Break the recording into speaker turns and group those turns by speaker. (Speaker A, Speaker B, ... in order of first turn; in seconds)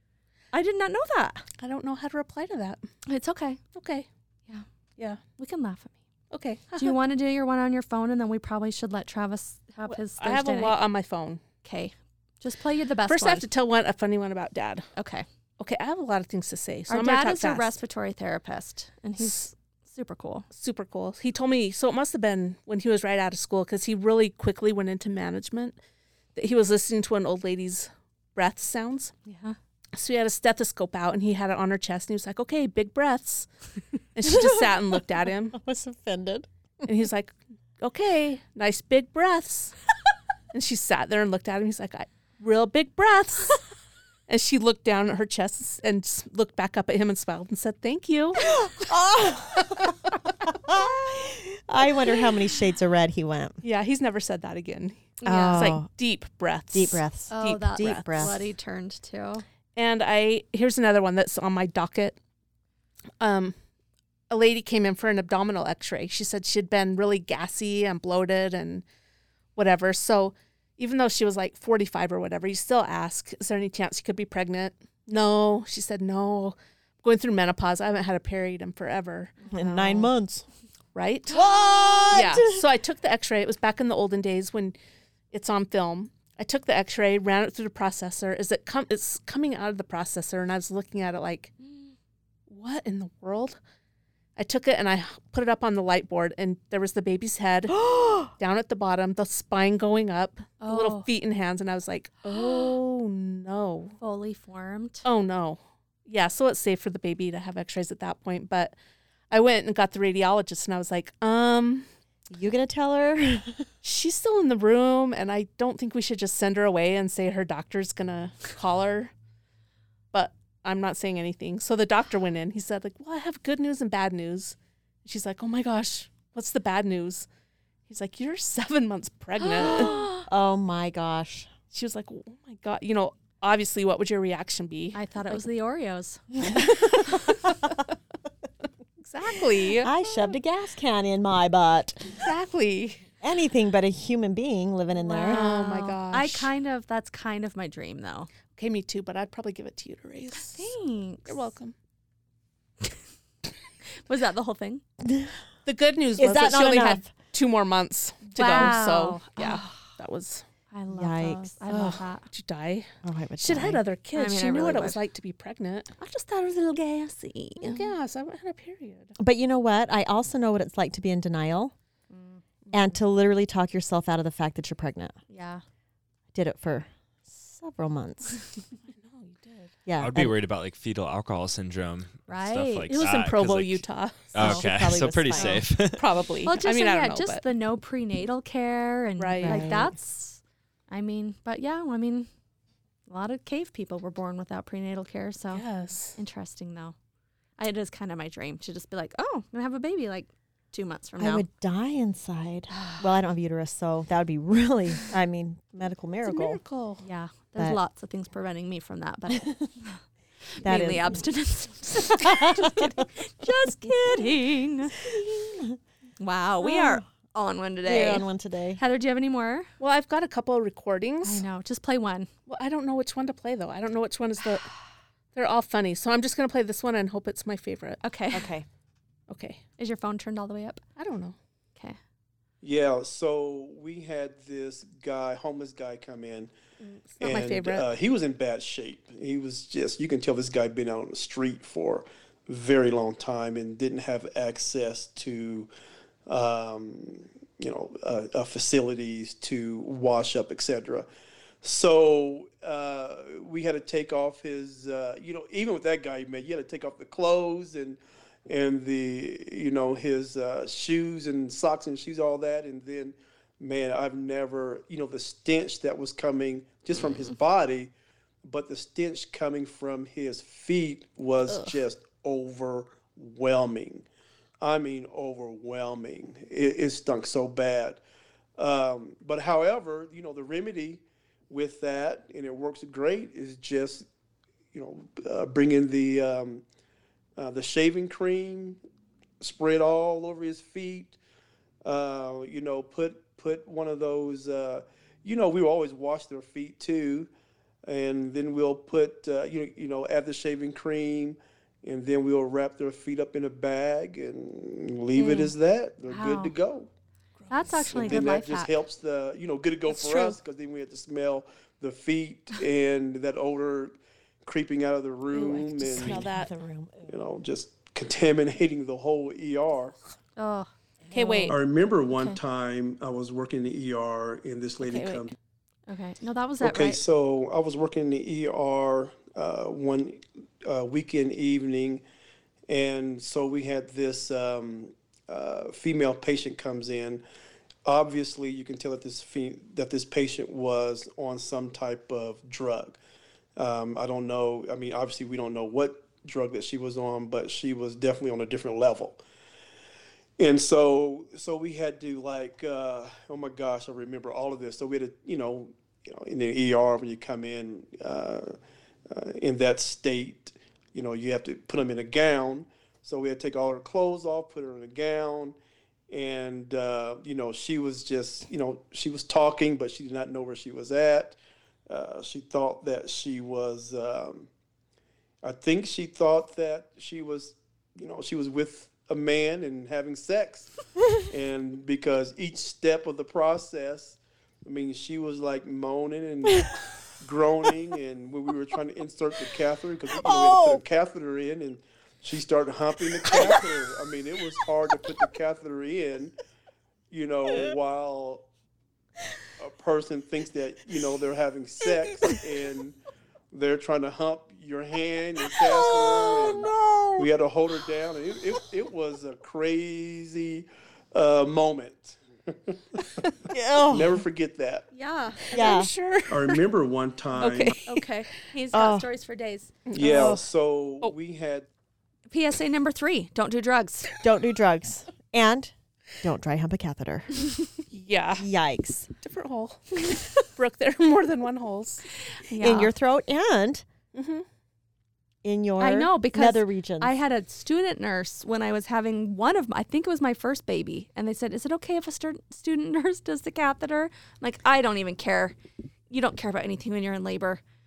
Speaker A: 0.5-1.4, 3.1-3.6, 5.4-6.0, 6.8-10.8, 11.6-13.4, 15.0-15.3, 16.9-20.5, 29.3-29.6, 55.2-55.8, 57.3-59.4, 100.6-101.1, 104.0-105.0, 129.4-130.3, 134.9-137.2, 145.0-148.3, 150.3-151.5, 154.1-154.8, 158.4-159.8, 160.7-162.2, 164.1-165.0, 166.0-167.9, 172.1-172.4, 175.3-175.6, 182.3-182.9, 186.4-192.3, 193.1-195.6, 196.2-196.9, 197.6-201.5, 207.0-210.0, 210.6-215.1, 216.2-219.7, 221.2-222.3, 228.0-228.5, 229.8-230.8, 305.2-305.5, 306.1-306.5, 307.5-308.7, 320.4-321.6, 325.9-327.0, 414.9-415.5, 417.9-419.7, 422.3-424.1, 432.4-432.9, 435.8-445.6, 446.1-447.6
Speaker B: 1.6-2.9, 3.8-4.1, 6.3-7.0, 9.9-11.4, 13.1-14.9, 15.6-17.7, 20.5-25.8, 26.4-29.1, 29.9-33.5, 34.1-35.6, 36.8-39.8, 40.5-43.6, 44.3-48.6, 53.6-58.4, 59.8-62.2, 63.2-63.5, 64.3-68.8, 69.6-80.1, 81.0-81.5, 82.1-84.8, 85.3-91.5, 92.5-93.6, 94.4-97.8, 98.4-104.0, 105.0-108.8, 109.3-111.9, 113.8-119.1, 120.1-127.3, 127.9-130.0, 131.7-135.4, 139.0-139.9, 142.2-143.0, 145.2-146.5, 148.6-150.7, 151.3-151.7, 155.7-160.4, 161.7-165.9, 167.6-169.2, 178.9-179.7, 182.9-184.7, 185.3-187.4, 189.2-189.7, 195.5-196.2, 206.2-207.0, 219.8-221.4, 222.5-224.7, 225.3-228.0, 229.3-229.6, 231.0-231.4, 237.2-237.9, 307.4-308.3, 309.9-310.4, 315.3-316.5, 321.1-321.6, 324.8-325.3, 415.5-416.6, 417.4-418.1, 419.9-420.4, 427.9-428.5, 429.2-432.1, 434.1-434.4
Speaker C: 34.2-34.7, 35.5-36.9, 48.4-53.6, 55.3-55.9, 56.7-58.5, 79.5-80.5, 81.3-82.6, 97.7-98.3, 112.3-113.7, 129.6-131.5, 136.6-137.0, 139.8-142.3, 143.2-145.5, 155.0-155.3, 156.2-157.1, 160.9-161.6, 163.0-163.8, 169.2-171.7, 172.7-175.2, 176.3-178.4, 179.9-180.3, 184.4-185.6, 189.4-189.9, 201.2-206.6, 209.3-209.7, 210.6-211.2, 212.2-213.1, 213.8-214.3, 214.9-215.8, 216.6-217.0, 217.8-218.8, 228.3-228.7, 315.8-317.2, 390.2-390.8, 393.2-393.6, 405.5-407.3, 413.5-414.2, 415.5-415.9, 418.7-419.1, 424.2-427.5, 428.4-429.1, 432.6-433.9, 435.4-437.1
Speaker D: 180.0-186.0
Speaker E: 232.6-236.5, 237.2-245.7, 246.3-251.1, 251.6-267.9, 268.4-274.1, 274.6-278.0, 278.6-284.1, 284.7-286.6, 287.4-288.8, 289.4-291.2, 291.8-297.3, 297.9-306.9, 307.8-316.3, 317.1-320.0, 321.5-325.3, 326.6-332.0, 332.7-337.2, 337.9-343.0, 343.6-349.2, 350.4-358.6, 359.1-365.6, 366.1-371.4, 371.9-374.5, 375.4-396.4, 397.1-398.5, 399.6-403.0, 403.5-414.9, 416.3-417.8, 419.9-421.7